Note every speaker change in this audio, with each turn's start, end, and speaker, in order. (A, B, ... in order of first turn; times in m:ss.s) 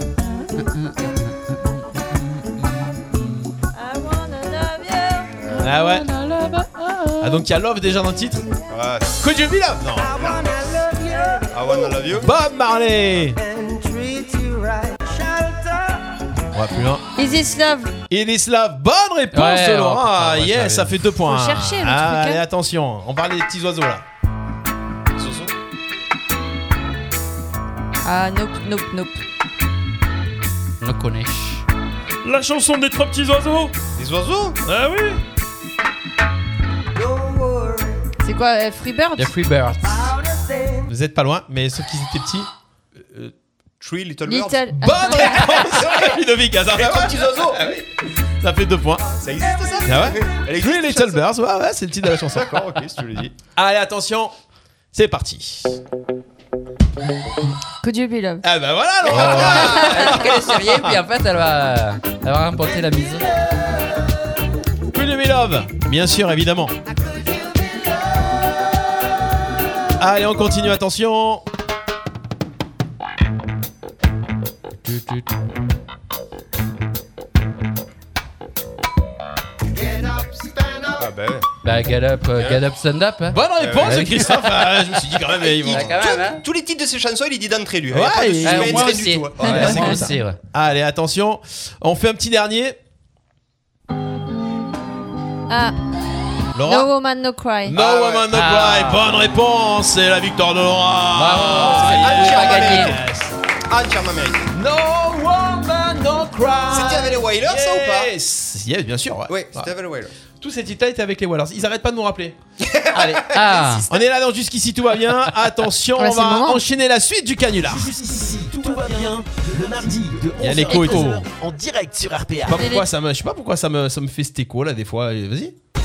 0:00.6-0:01.8 A
0:03.8-0:05.3 B
0:05.4-0:05.7 C
0:05.6-0:06.1 D
0:07.2-0:08.5 D
0:08.7-0:09.1 C
0:09.2-0:10.3 D
0:11.5-0:12.3 C
0:12.2-0:13.4 D
0:16.5-0:17.0 D
0:17.2-0:17.9 B
0:18.1-0:24.0 D
0:19.3-0:21.0 A
0:21.3-0:22.4 B
0:25.1-0:25.5 C
0:28.0-0:29.2 B
0:30.8-0:31.6 A
0:32.2-0:33.8 E
0:34.0-0:34.6 C
0:34.6-0:35.2 E
0:38.2-0:39.3 B
0:39.2-0:39.9 A
0:40.9-0:42.5 D
0:43.8-0:46.2 C
0:44.3-0:45.7 B
0:44.8-0:47.9 D
0:46.7-0:47.8 C
0:48.4-0:49.1 D
0:49.2-0:51.2 C
0:49.8-0:52.6 D
0:52.3-0:53.4 C
0:53.6-0:54.3 D
0:54.9-0:55.8 D
0:57.8-0:58.4 B
0:58.4-1:01.0 D
0:59.1-1:03.3 A
0:59.1-1:00.0 C
0:59.8-1:00.1 B
1:04.9-1:06.8 D
1:10.0-1:11.4 D
1:14.9-1:15.2 A
1:21.0-1:21.5 C
1:21.6-1:24.7 A
1:23.3-1:25.9 D
1:23.6-1:24.3 C
1:25.5-1:29.9 C
1:25.6-1:26.4 A
1:27.9-1:32.8 D
1:28.4-1:30.4 A
1:35.5-1:35.8 B
1:36.6-1:36.9 D
1:36.6-1:37.8 B
1:37.7-1:43.3 D
1:37.8-1:38.3 C
1:38.3-1:39.2 A
1:41.2-1:43.0 A
1:41.6-1:43.0 C
1:43.7-1:44.5 C
1:44.5-1:49.7 D
1:46.7-1:48.1 C
1:49.3-1:50.1 C
1:50.4-1:52.4 D
1:52.6-1:53.9 C
1:52.9-1:53.2 D
1:53.3-1:53.9 A
1:53.9-1:57.9 D
1:56.0-1:56.6 B
1:57.6-2:02.7 F
1:58.9-1:59.1 D
2:00.4-2:01.2 D
2:02.5-2:05.6 D
2:02.6-2:02.9 B